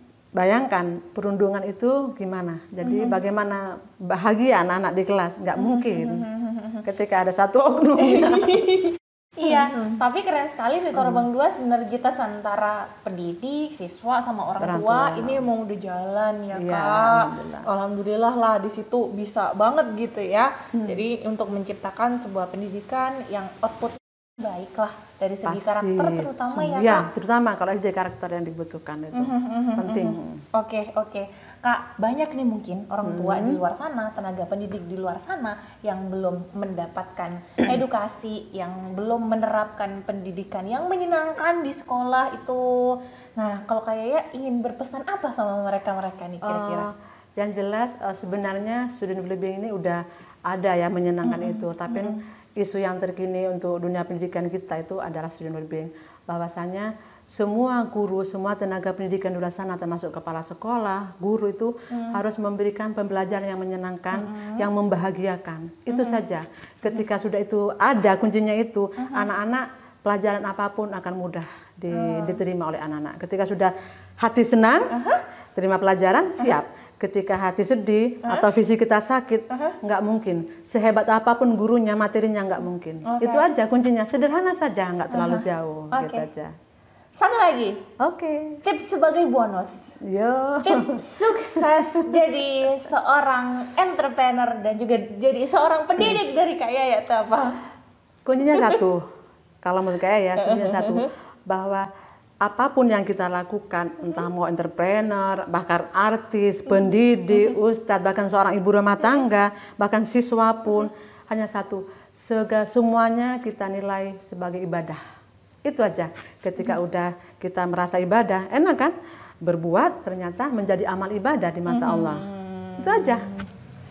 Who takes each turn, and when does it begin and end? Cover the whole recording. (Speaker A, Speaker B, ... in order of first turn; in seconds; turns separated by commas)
Speaker A: 0.4-6.2, Speaker B: 2.8-3.2, Speaker B: 5.6-6.8, Speaker A: 6.8-8.7, Speaker B: 8.0-27.1, Speaker A: 10.9-11.2, Speaker A: 14.6-15.4, Speaker A: 16.5-17.7, Speaker A: 20.7-21.0, Speaker A: 25.4-30.4, Speaker B: 29.1-46.9, Speaker A: 33.0-33.6, Speaker A: 46.4-75.0, Speaker B: 51.2-52.2, Speaker B: 61.9-62.2, Speaker B: 64.1-64.7, Speaker B: 65.9-66.2, Speaker B: 69.0-69.3, Speaker B: 71.9-72.4, Speaker B: 74.9-75.2, Speaker A: 75.5-86.5, Speaker B: 79.5-79.8, Speaker B: 83.0-83.5, Speaker B: 85.1-86.2, Speaker B: 87.2-87.8, Speaker A: 88.0-88.6, Speaker B: 88.6-89.9, Speaker A: 90.0-92.2, Speaker B: 90.6-97.6, Speaker A: 98.2-99.0, Speaker B: 98.5-98.8, Speaker A: 99.6-101.9, Speaker B: 100.4-101.1, Speaker A: 102.4-115.0, Speaker B: 106.8-107.5, Speaker A: 115.7-118.9, Speaker A: 119.4-122.2, Speaker B: 121.7-123.5, Speaker A: 122.8-123.3